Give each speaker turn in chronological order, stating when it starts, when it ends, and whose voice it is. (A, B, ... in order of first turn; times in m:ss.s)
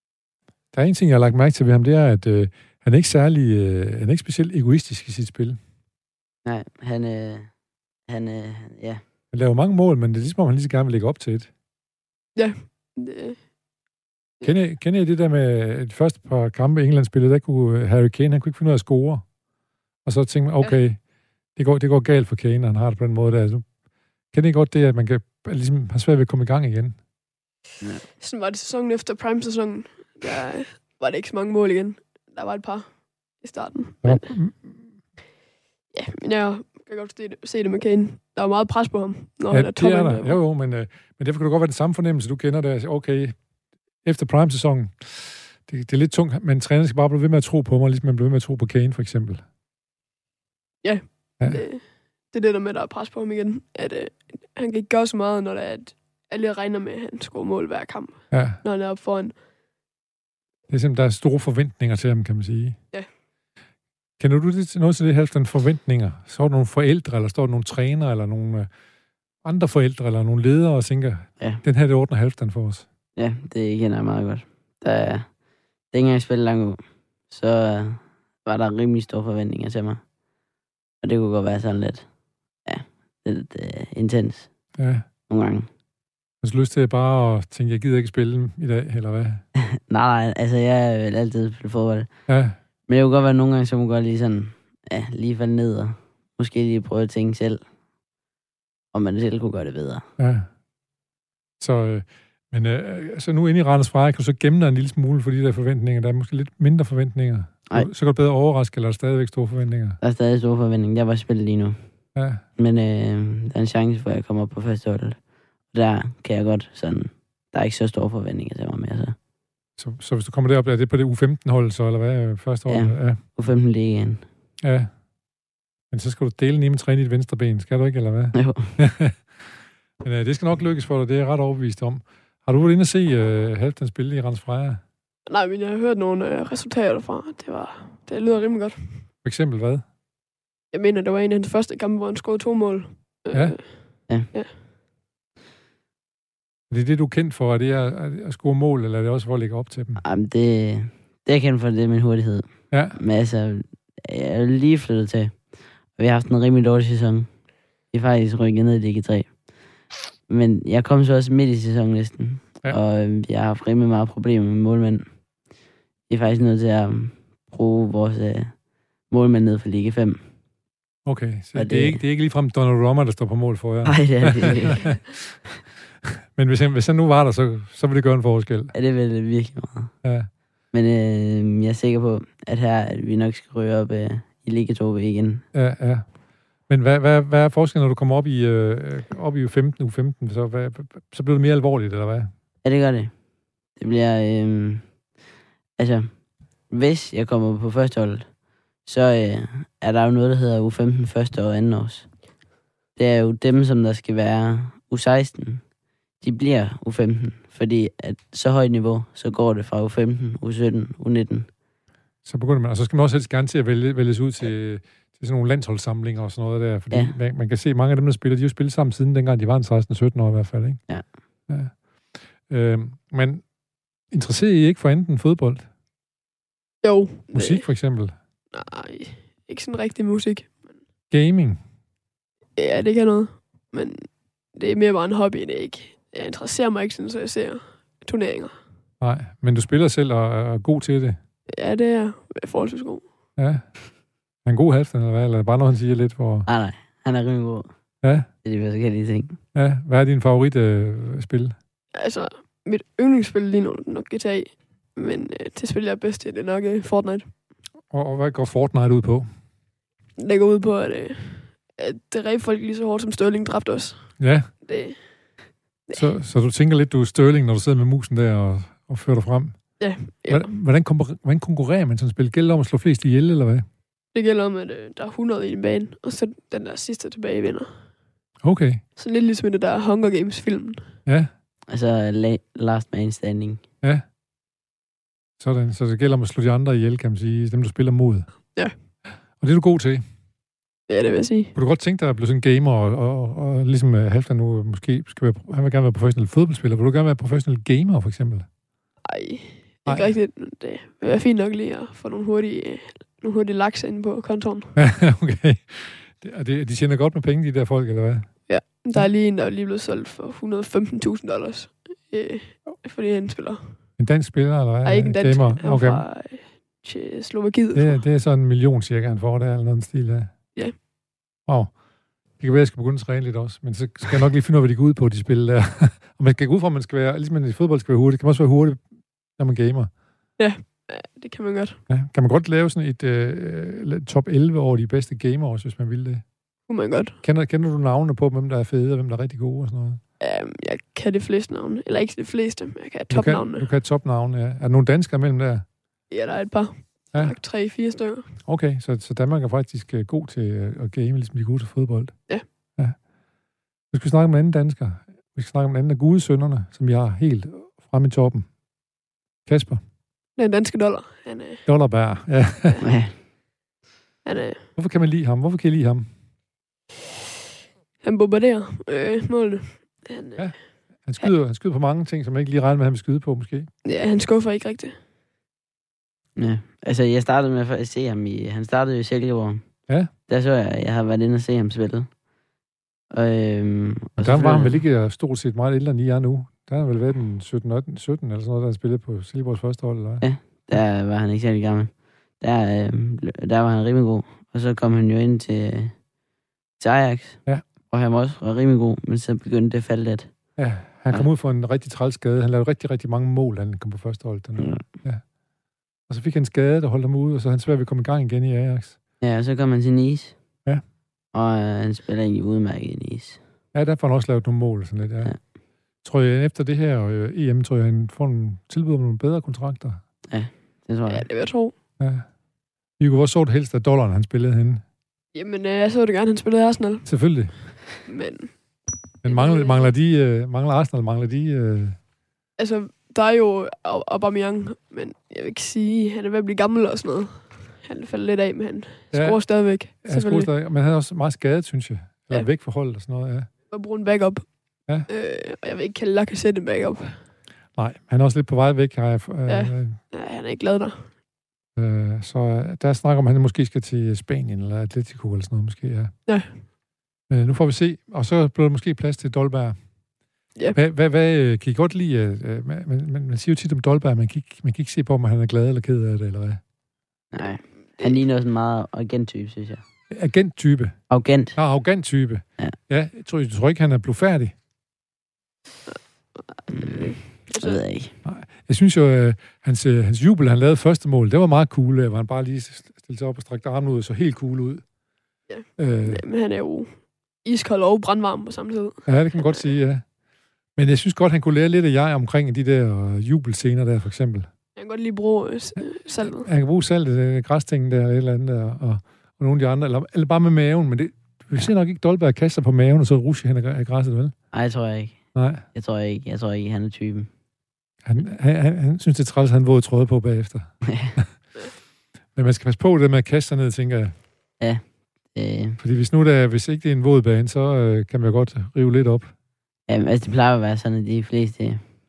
0:00.7-0:05.6 A
0:06.4-0:07.5 B
0:08.1-0:09.0 B
0:09.3-0:11.5 A
0:12.4-0:13.4 C
0:14.4-0:19.2 A
0:20.0-0:21.0 A
0:21.6-0:23.6 A
0:24.3-0:27.0 A
0:28.2-0:32.9 C
0:33.4-0:34.3 C
0:34.0-0:34.8 A
0:35.9-0:40.4 C
0:39.5-0:43.4 A
0:44.0-0:49.4 A
0:50.8-0:59.3 C
0:58.3-0:58.6 A
1:00.7-1:02.8 A
1:04.2-1:08.7 A
1:09.4-1:12.8 A
1:13.2-1:15.3 B
1:15.9-1:16.8 B
1:17.3-1:20.0 B
1:21.0-1:22.0 B
1:22.7-1:24.5 B
1:24.8-1:25.0 A
1:25.3-1:25.7 B
1:26.4-1:29.4 A
1:29.6-1:32.1 B
1:32.3-1:32.6 A
1:32.9-1:37.6 B
1:38.9-1:40.0 B
1:40.2-1:40.5 A
1:41.6-1:50.0 A
1:50.0-1:51.8 B
1:52.1-1:52.4 A
1:52.6-1:55.2 B
1:55.7-1:59.2 B
1:59.8-2:03.2 A
2:02.7-2:04.2 B
2:04.6-2:04.9 A
2:05.9-2:09.2 A
2:08.3-2:08.7 B
2:10.0-2:14.8 A
2:15.3-2:18.9 C
2:19.2-2:19.8 A
2:20.7-2:24.5 C
2:23.3-2:23.6 A
2:26.7-2:30.0 A
2:30.0-2:35.3 B
2:32.7-2:33.0 A
2:36.0-2:37.3 B
2:37.9-2:39.3 B
2:40.3-2:45.1 B
2:46.1-2:48.5 B
2:49.1-2:50.2 B
2:51.1-2:55.0 A
2:51.6-2:52.0 B
2:53.8-2:54.9 B
2:56.0-2:58.7 A
2:58.7-2:59.9 B
3:00.0-3:00.3 A
3:00.7-3:05.4 B
3:05.5-3:06.0 A
3:06.7-3:12.3 A
3:12.6-3:13.1 B
3:13.8-3:14.8 B
3:15.8-3:16.1 B
3:16.7-3:18.3 B
3:18.8-3:22.1 B
3:23.0-3:25.6 B
3:26.2-3:31.5 B
3:32.2-3:40.8 A
3:41.5-3:41.7 A
3:42.5-3:43.4 A
3:44.1-3:45.7 A
3:46.8-3:47.6 C
3:47.3-3:48.1 A
3:48.5-3:50.7 C
3:51.1-3:51.6 A
3:52.6-3:58.6 C
3:59.0-4:01.2 A
4:01.5-4:03.0 C
4:03.4-4:03.7 A
4:04.4-4:06.5 A
4:06.5-4:07.7 B
4:08.4-4:09.4 B
4:09.6-4:11.6 A
4:12.0-4:17.3 C
4:17.9-4:19.3 A
4:20.2-4:24.1 C
4:24.2-4:24.5 A
4:24.6-4:25.0 C
4:25.9-4:29.6 A
4:29.8-4:30.5 C
4:30.3-4:33.7 A
4:34.1-4:37.7 C
4:38.4-4:38.8 A
4:39.0-4:40.8 C
4:41.7-4:43.6 B
4:45.4-4:48.3 A
4:49.4-4:50.0 A
4:50.9-4:51.5 C
4:51.6-4:58.5 A
4:59.0-5:04.7 C
4:59.9-5:00.1 A
5:04.8-5:08.3 A
5:08.5-5:13.7 C
5:14.0-5:16.0 A
5:14.8-5:18.0 C
5:17.7-5:20.3 A
5:21.5-5:21.7 A
5:22.4-5:28.8 A
5:29.4-5:29.9 A
5:30.4-5:31.8 C
5:31.9-5:36.2 A
5:36.7-5:37.2 C
5:37.2-5:40.0 A
5:40.2-5:43.7 C
5:43.1-5:45.6 A
5:46.1-5:48.3 C
5:48.4-5:52.1 A
5:53.9-5:58.5 A
5:59.4-5:59.8 A
6:00.4-6:01.6 C
6:01.7-6:02.8 A
6:02.8-6:03.1 B
6:04.2-6:04.6 C
6:04.8-6:06.1 A
6:08.0-6:10.5 C
6:11.1-6:13.7 A
6:13.8-6:15.0 C
6:16.4-6:19.6 B
6:20.3-6:22.1 B
6:23.1-6:24.8 B
6:24.2-6:30.2 A
6:30.2-6:31.9 B
6:32.4-6:35.9 B
6:36.8-6:37.4 B
6:37.9-6:40.3 B
6:40.6-6:45.2 A
6:46.1-6:49.0 A
6:49.2-6:50.4 B
6:51.3-6:53.4 B
6:53.7-6:55.4 A
6:56.0-7:00.0 A
7:00.3-7:01.3 B
7:01.1-7:01.8 C
7:02.0-7:02.2 A
7:03.0-7:04.8 A
7:05.4-7:07.1 C
7:07.1-7:07.5 A
7:08.0-7:08.5 C
7:09.2-7:12.0 A
7:09.2-7:09.9 C
7:12.6-7:20.5 C
7:19.1-7:19.4 A
7:20.0-7:23.5 A
7:23.7-7:24.4 C
7:25.1-7:27.2 C
7:27.8-7:30.0 A
7:29.5-7:31.0 C
7:31.8-7:36.1 A
7:37.3-7:39.8 A
7:40.7-7:46.6 A
7:47.3-7:49.8 B
7:50.1-7:51.0 A
7:51.1-7:51.6 B
7:51.6-7:54.5 A
7:56.5-7:57.8 C
7:56.7-7:58.1 B
7:58.2-8:04.8 A
8:05.5-8:06.9 C
8:05.8-8:06.2 A
8:07.4-8:09.0 C
8:09.1-8:10.0 A
8:10.8-8:14.5 A
8:14.8-8:16.5 C
8:16.2-8:24.3 A
8:24.5-8:25.2 B
8:25.4-8:25.6 A
8:25.7-8:27.3 B
8:28.0-8:31.3 A
8:30.8-8:31.2 B
8:32.4-8:34.1 A
8:35.3-8:35.8 B
8:35.8-8:39.3 A
8:39.9-8:41.8 B